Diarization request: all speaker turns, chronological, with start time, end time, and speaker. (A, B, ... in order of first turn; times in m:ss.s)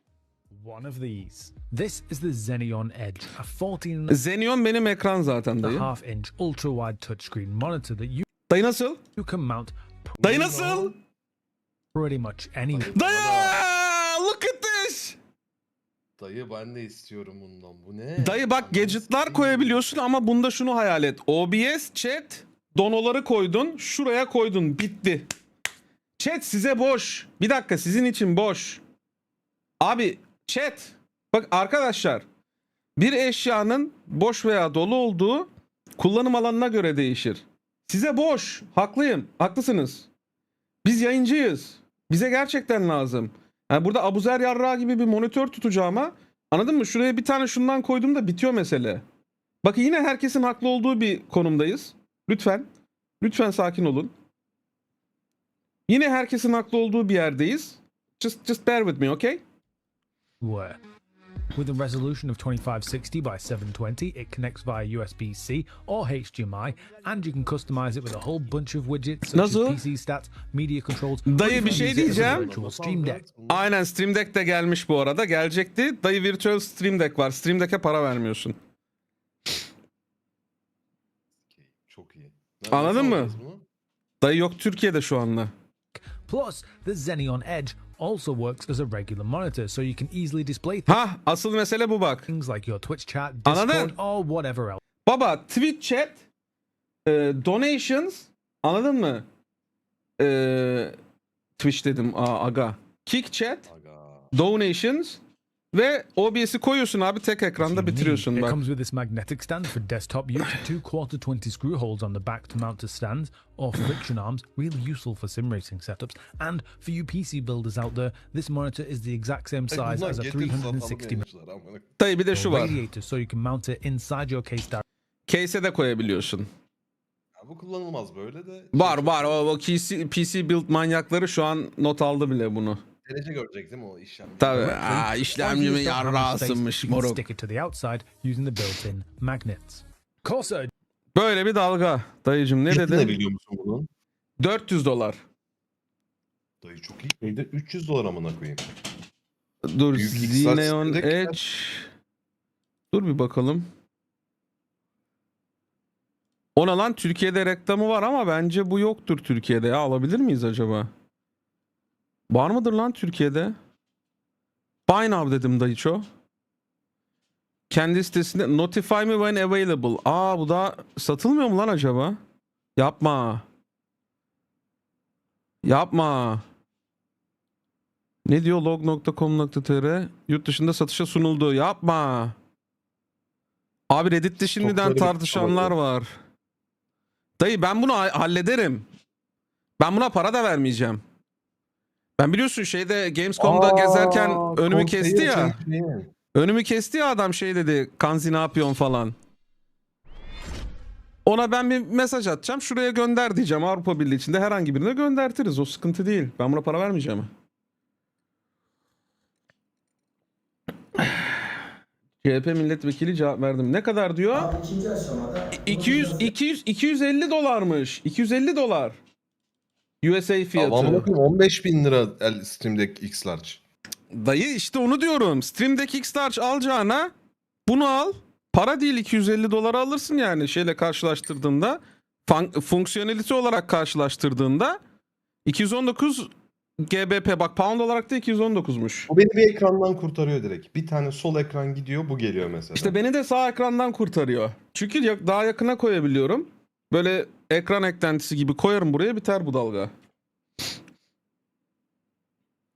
0:00.5-0:04.2 A
0:04.1-0:05.9 B
0:05.6-0:08.3 A
0:08.5-0:09.0 B
0:09.2-0:10.9 A
0:10.2-0:10.8 C
0:10.2-0:10.9 B
0:11.9-0:13.0 A
0:12.7-0:13.6 C
0:12.9-0:15.2 B
0:16.2-0:19.8 C
0:18.2-0:25.3 B
0:26.2-0:28.8 B
0:29.8-0:32.2 B
0:33.0-0:40.1 B
0:40.8-0:49.0 B
0:49.6-0:52.7 B
0:53.2-0:54.1 B
0:55.9-0:59.4 B
1:00.4-1:00.8 A
1:01.6-1:13.2 A
1:09.3-1:09.8 B
1:11.2-1:12.5 B
1:11.4-1:13.7 C
1:13.5-1:18.6 B
1:21.5-1:23.6 C
1:22.7-1:23.4 B
1:24.2-1:25.5 B
1:26.2-1:31.0 A
1:30.9-1:32.3 B
1:32.3-1:34.8 A
1:33.5-1:34.0 B
1:35.1-1:36.2 B
1:37.0-1:39.2 B
1:40.2-1:41.0 B
1:41.6-1:43.7 B
1:43.7-1:44.3 C
1:44.3-1:45.2 B
1:45.7-1:48.6 B
1:47.6-2:01.2 A
1:59.7-2:01.9 C
2:02.0-2:02.8 B
2:02.3-2:04.8 A
2:05.3-2:06.5 B
2:07.4-2:09.4 C
2:08.7-2:12.8 B
2:13.0-2:15.1 C
2:14.4-2:17.2 B
2:14.8-2:20.7 A
2:21.2-2:23.2 B
2:22.7-2:23.9 C
2:24.4-2:25.2 B
2:26.6-2:28.7 C
2:29.6-2:31.9 B
2:29.9-2:31.4 C
2:32.9-2:33.7 B
2:36.6-2:40.9 B
2:42.3-2:43.6 B
2:44.9-2:46.1 B
2:47.7-2:52.2 B
2:52.8-2:53.4 B
2:55.6-2:56.4 B
2:58.2-3:02.4 B
3:03.9-3:06.2 B
3:04.6-3:05.7 C
3:07.4-3:08.9 B
3:09.8-3:11.0 B
3:12.2-3:15.6 B
3:13.4-3:16.1 C
3:16.4-3:19.2 B
3:21.2-3:27.3 B
3:32.2-3:34.5 B
3:34.3-3:36.1 A
3:35.6-3:39.0 B
3:40.0-3:41.1 B
3:40.6-3:43.6 C
3:44.1-3:47.1 B
3:47.7-3:54.8 B
3:55.4-3:56.3 B
3:56.8-3:59.1 B
3:59.1-4:03.0 C
4:02.8-4:09.9 B